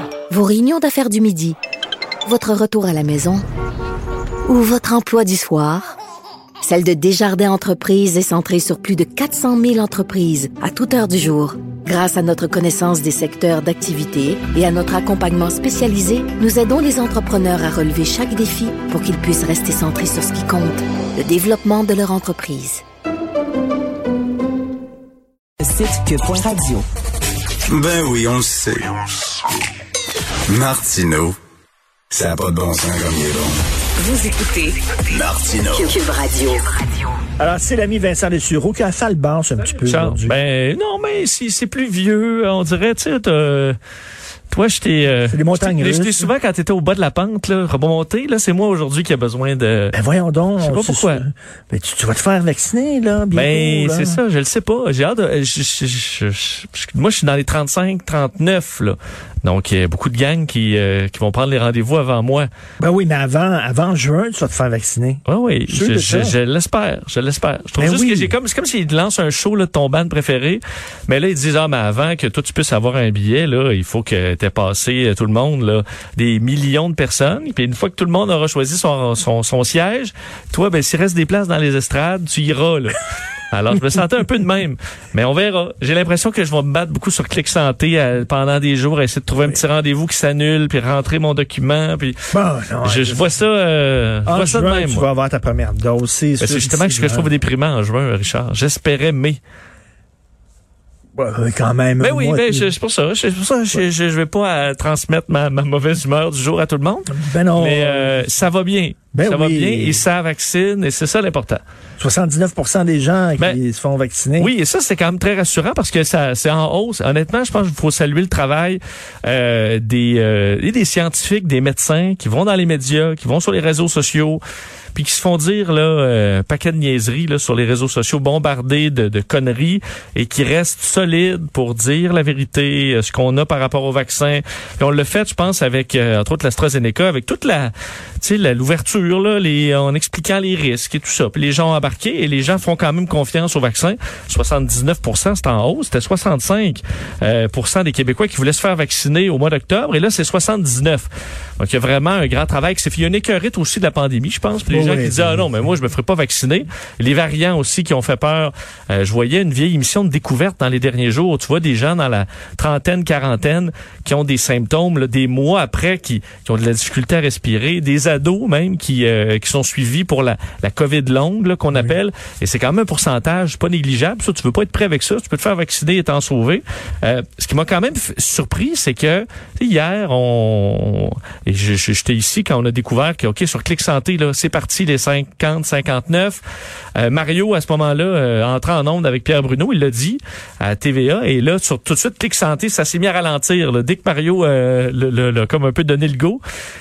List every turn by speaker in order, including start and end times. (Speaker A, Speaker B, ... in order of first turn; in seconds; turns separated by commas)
Speaker A: 0.3-1.6, Speaker A: 2.3-3.5, Speaker A: 4.5-6.0, Speaker A: 6.6-22.8, Speaker B: 25.6-26.9, Speaker C: 27.7-29.1, Speaker C: 30.5-31.4, Speaker C: 32.1-33.6, Speaker B: 34.0-34.7, Speaker A: 34.0-34.5, Speaker C: 35.1-35.9, Speaker A: 35.7-36.6, Speaker D: 37.4-40.4, Speaker E: 39.8-43.8, Speaker E: 44.5-50.0, Speaker D: 45.3-46.3, Speaker D: 49.9-54.2, Speaker E: 50.6-51.2, Speaker E: 53.3-62.5, Speaker D: 62.8-66.3, Speaker E: 65.3-92.2, Speaker D: 67.8-68.3, Speaker D: 92.3-93.3, Speaker E: 92.8-95.1, Speaker D: 94.3-97.3, Speaker E: 96.4-99.4, Speaker D: 101.2-102.7, Speaker E: 102.0-111.6, Speaker D: 107.1-108.3, Speaker D: 109.1-110.0, Speaker D: 112.0-114.5, Speaker E: 114.4-124.4, Speaker E: 124.9-186.4, Speaker D: 154.7-155.6, Speaker E: 187.0-196.4